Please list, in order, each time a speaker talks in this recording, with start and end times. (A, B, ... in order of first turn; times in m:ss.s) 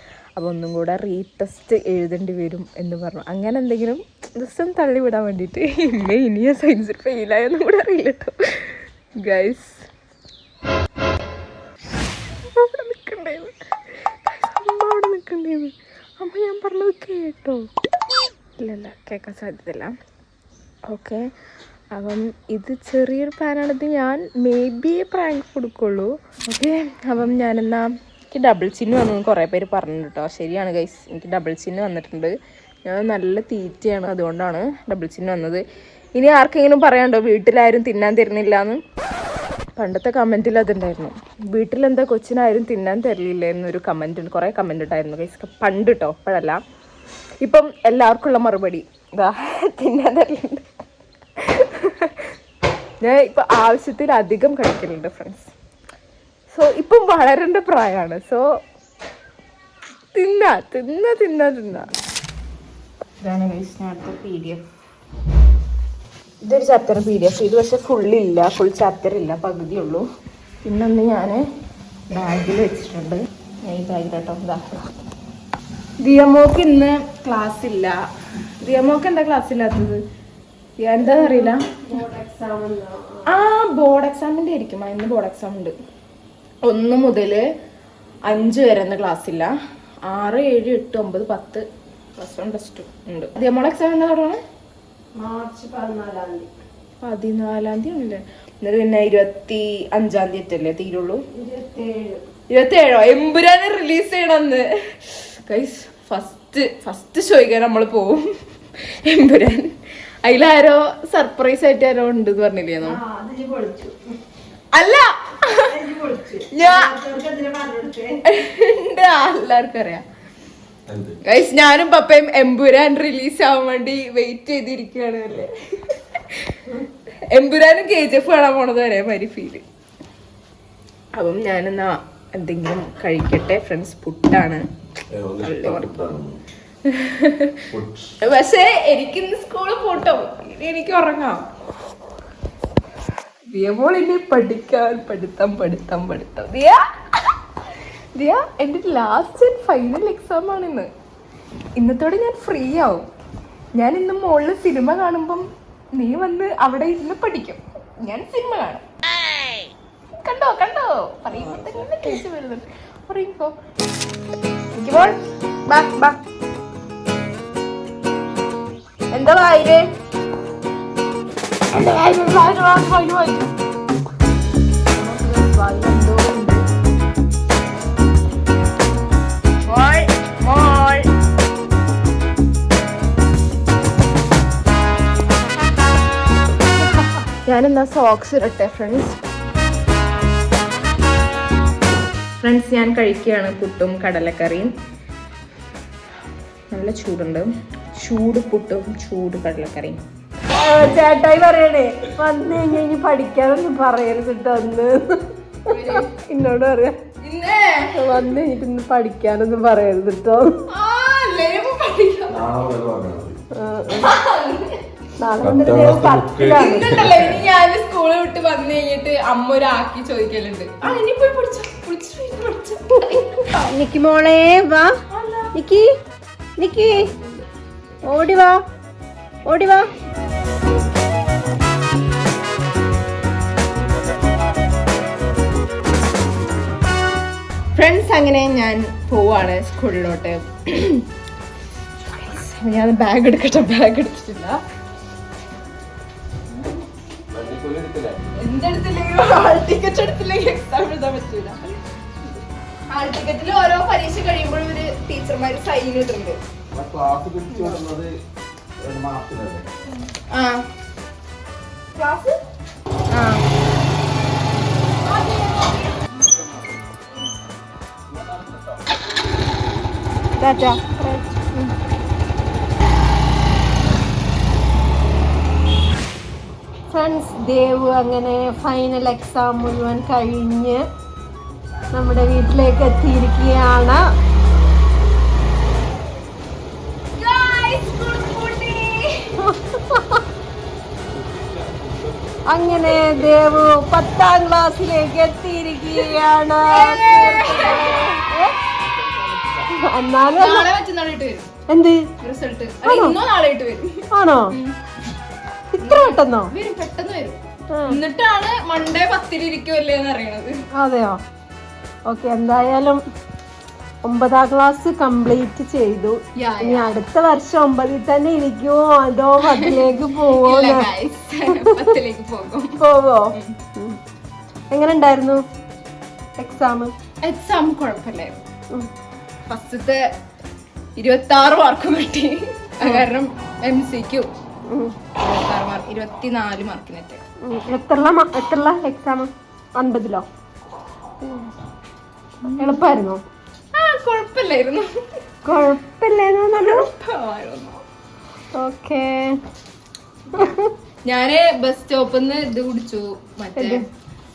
0:00.4-0:09.8 A
0:12.5-0:13.5 A
0:14.3-0:17.6 A
0:18.6-0:19.9 A
0:20.9-0:21.3 A
0:21.9-0:32.3 A
0:32.9-0:35.6 A
0:36.2-0:38.8 A
0:39.8-0:46.6 A
0:47.4-0:50.6 A
0:51.4-0:52.3 A
0:53.0-0:55.5 A
0:56.5-0:58.4 A
1:00.1-1:01.9 A
1:03.2-1:04.6 A
1:06.4-1:10.0 A
1:10.6-1:11.4 A
1:12.1-1:14.6 A
1:16.0-1:18.0 A
1:18.6-1:20.0 A
1:20.8-1:21.6 A
1:21.1-1:23.4 B
1:23.3-1:25.7 A
1:26.7-1:27.4 A
1:28.3-1:29.5 A
1:30.1-1:31.6 A
1:32.2-1:34.4 A
1:35.2-1:36.5 B
1:37.0-1:41.2 A
1:41.3-1:42.2 B
1:42.5-1:48.3 A
1:48.8-1:49.7 A
1:50.2-1:53.0 A
1:52.8-1:54.0 B
1:54.7-1:55.6 A
1:55.6-1:58.2 B
1:56.6-1:56.9 A
1:58.3-2:00.0 A
2:00.9-2:01.2 C
2:01.3-2:05.5 A
2:07.3-2:09.6 A
2:11.2-2:14.6 A
2:15.1-2:16.4 C
2:15.4-2:16.0 A
2:16.9-2:17.5 A
2:17.7-2:18.1 C
2:18.2-2:21.4 A
2:23.5-2:26.8 A
2:28.2-2:30.9 A
2:31.8-2:33.1 A
2:33.8-2:35.4 A
2:36.0-2:38.8 A
2:40.2-2:43.5 A
2:44.8-2:46.2 A
2:49.1-2:49.9 A
2:51.7-2:53.5 A
2:54.9-2:56.6 A
2:59.6-3:01.1 A
3:07.5-3:09.2 A
3:12.4-3:14.7 A
3:16.7-3:17.5 A
3:18.0-3:20.0 A
3:20.5-3:25.0 B
3:25.7-3:26.1 A
3:25.7-3:26.9 B
3:27.2-3:27.8 A
3:28.0-3:30.5 B
3:30.7-3:32.5 A
3:32.3-3:33.4 C
3:33.6-3:34.1 B
3:34.0-3:34.8 A
3:35.2-3:36.9 B
3:35.4-3:37.4 C
3:36.5-3:43.7 A
3:43.7-3:44.9 B
3:45.1-3:45.5 A
3:45.5-3:45.9 B
3:46.6-3:47.1 B
3:48.1-3:48.6 B
3:49.5-3:49.9 B
3:57.8-4:01.0 A
4:02.1-4:04.6 A
4:07.3-4:08.2 C
4:08.4-4:11.8 A
4:12.9-4:16.4 A
4:16.7-4:18.1 C
4:17.5-4:17.8 A
4:18.8-4:19.7 C
4:20.3-4:20.6 A
4:22.0-4:22.4 A
4:23.1-4:23.4 A
4:25.0-4:26.1 A
4:28.2-4:28.5 C
4:30.4-4:31.7 A
4:30.5-4:31.2 B
4:36.9-4:40.8 B
4:41.9-4:44.0 B
4:47.2-4:49.2 A
4:49.4-4:50.2 B
4:52.5-4:58.6 B
4:56.7-4:58.2 A
4:59.8-5:00.7 B
5:00.4-5:01.5 A
5:01.7-5:02.0 B
5:02.2-5:04.8 A
5:02.8-5:03.2 B
5:04.1-5:04.5 B
5:05.8-5:06.5 B
5:05.8-5:10.6 A
5:10.8-5:11.2 B
5:12.1-5:13.0 B
5:14.0-5:20.9 B
5:16.4-5:16.9 A
5:19.5-5:22.8 A
5:22.8-5:24.0 B
5:24.7-5:25.4 B
5:26.4-5:26.9 B
5:27.2-5:28.4 A
5:29.5-5:30.0 A
5:31.0-5:34.3 A
5:34.7-5:34.9 B
5:35.2-5:37.2 A
5:37.4-5:40.3 B
5:41.2-5:41.5 B
5:42.5-5:42.8 A
5:42.6-5:43.2 B
5:43.8-5:44.9 A
5:45.4-5:46.9 B
5:46.6-5:47.8 A
5:48.6-5:49.3 B
5:50.3-5:50.7 B
5:51.1-5:53.8 A
5:53.6-5:53.8 B